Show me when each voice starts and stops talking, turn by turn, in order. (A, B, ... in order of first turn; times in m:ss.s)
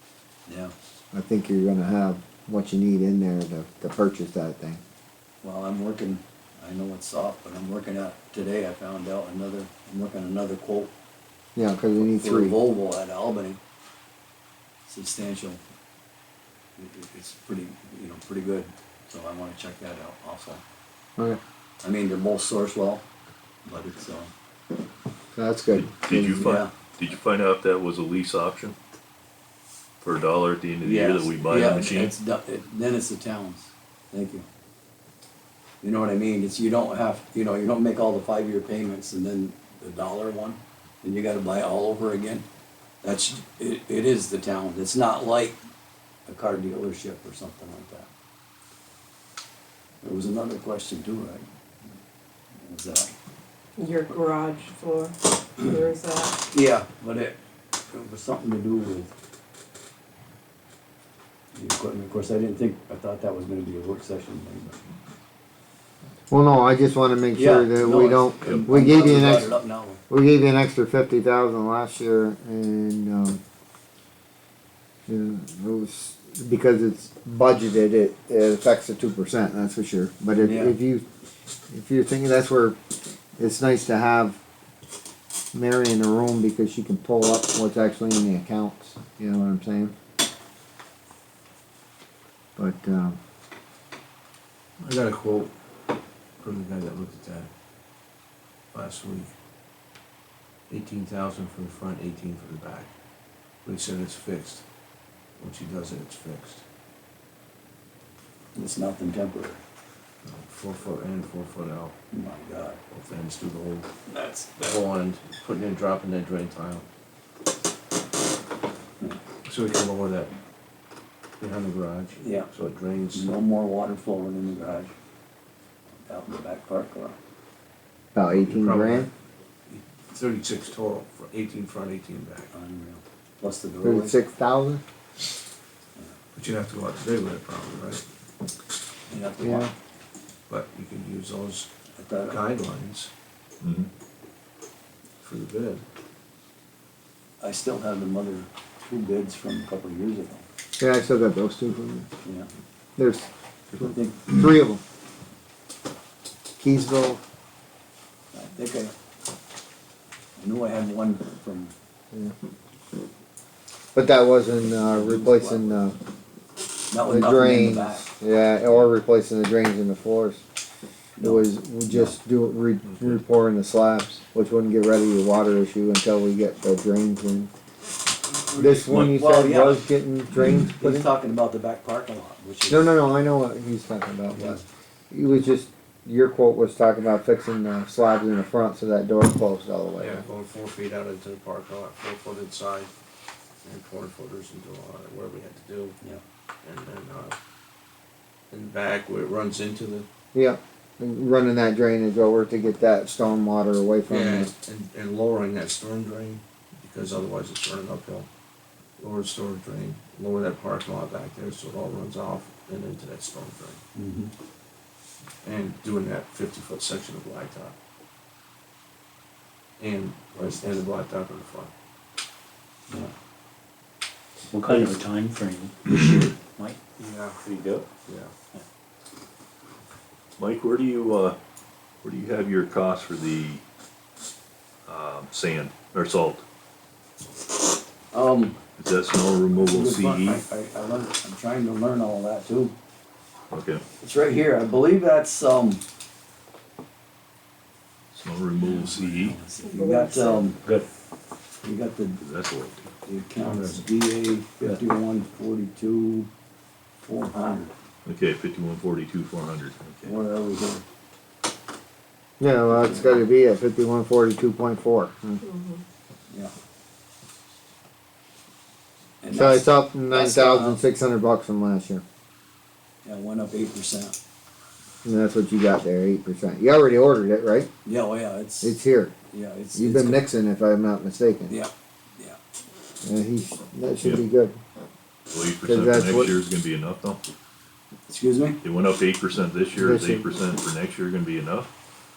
0:00.4-0:00.7 A
0:01.1-0:04.8 B
0:05.4-0:10.9 A
0:11.6-0:12.6 B
0:11.9-0:13.6 A
0:14.8-0:15.6 A
0:16.8-0:20.6 A
0:21.8-0:23.0 A
0:23.6-0:24.3 A
0:25.3-0:26.4 B
0:25.7-0:28.8 C
0:26.2-0:26.7 A
0:30.0-0:32.1 C
0:30.8-0:34.4 A
0:35.8-0:42.4 A
0:43.0-0:45.6 A
0:46.2-0:48.1 A
0:50.0-0:51.4 A
0:52.6-0:53.1 A
0:53.8-0:56.4 D
0:56.5-0:57.4 A
0:57.9-0:59.1 A
1:01.5-1:04.8 A
1:06.3-1:09.5 B
1:07.3-1:10.0 A
1:10.1-1:13.4 B
1:15.1-1:21.0 B
1:20.4-1:20.8 A
1:21.7-1:22.8 B
1:23.4-1:24.4 B
1:25.5-1:29.9 B
1:32.6-1:33.2 B
1:34.8-1:35.5 E
1:36.4-1:37.5 E
1:38.7-1:39.3 E
1:40.7-1:42.9 E
1:43.6-1:44.6 E
1:45.4-1:46.6 E
1:48.5-1:49.6 A
1:50.2-1:51.9 E
1:52.1-1:52.8 A
1:52.9-1:53.9 E
1:54.1-1:54.7 A
1:54.5-1:56.8 E
1:59.4-2:00.3 E
2:01.4-2:03.3 E
2:02.2-2:02.5 A
2:03.1-2:04.9 A
2:06.0-2:07.2 A
2:08.1-2:09.1 B
2:08.3-2:09.1 E
2:09.7-2:12.5 E
2:12.5-2:14.2 A
2:13.8-2:14.8 B
2:16.3-2:18.0 E
2:19.1-2:19.7 A
2:19.4-2:19.7 B
2:20.5-2:21.7 E
2:21.9-2:22.4 A
2:22.2-2:23.1 E
2:23.6-2:23.9 C
2:25.2-2:25.8 E
2:27.4-2:30.4 A
2:30.8-2:32.1 B
2:32.2-2:32.5 A
2:33.0-2:33.3 B
2:33.7-2:34.2 A
2:34.3-2:34.8 B
2:36.6-2:37.2 B
2:38.3-2:38.9 A
2:40.4-2:41.7 A
2:43.9-2:46.0 B
2:44.6-2:45.9 A
2:46.9-2:48.1 A
2:47.0-2:50.4 B
2:51.2-2:52.2 A
2:51.2-2:57.5 B
2:52.8-2:53.2 C
2:58.3-2:59.9 A
2:58.6-3:01.1 B
3:00.8-3:03.0 A
3:02.7-3:10.2 B
3:04.3-3:04.6 A
3:10.0-3:12.9 E
3:13.6-3:16.0 E
3:16.6-3:17.4 E
3:18.5-3:20.1 E
3:20.3-3:24.5 B
3:24.1-3:28.3 E
3:29.0-3:33.8 E
3:33.9-3:34.3 A
3:35.4-3:37.7 E
3:39.8-3:41.7 E
3:44.5-3:46.8 F
3:47.0-3:47.4 E
3:47.4-3:47.8 F
3:48.0-3:48.3 E
3:50.4-3:51.4 C
3:52.0-3:53.6 C
3:54.9-3:56.4 C
3:58.1-3:58.6 A
3:58.8-4:00.4 C
3:59.6-4:02.7 A
4:03.5-4:03.8 C
4:04.0-4:05.8 A
4:08.1-4:09.4 C
4:08.6-4:10.6 A
4:09.6-4:10.6 D
4:10.6-4:10.9 F
4:11.6-4:12.2 A
4:12.2-4:12.9 C
4:13.0-4:16.3 A
4:13.4-4:13.9 E
4:17.0-4:17.7 A
4:18.0-4:20.2 C
4:20.0-4:20.8 A
4:22.4-4:25.4 B
4:22.7-4:23.2 A
4:25.4-4:25.8 D
4:29.2-4:30.8 A
4:29.3-4:32.0 B
4:33.0-4:34.1 A
4:35.0-4:37.7 B
4:37.8-4:38.8 A
4:38.6-4:39.1 B
4:39.3-4:40.3 A
4:39.7-4:41.5 B
4:41.5-4:42.4 A
4:43.0-4:44.6 B
4:45.3-4:47.2 C
4:45.6-4:46.3 B
4:48.1-4:48.6 A
4:48.6-4:51.7 C
4:49.7-4:50.3 B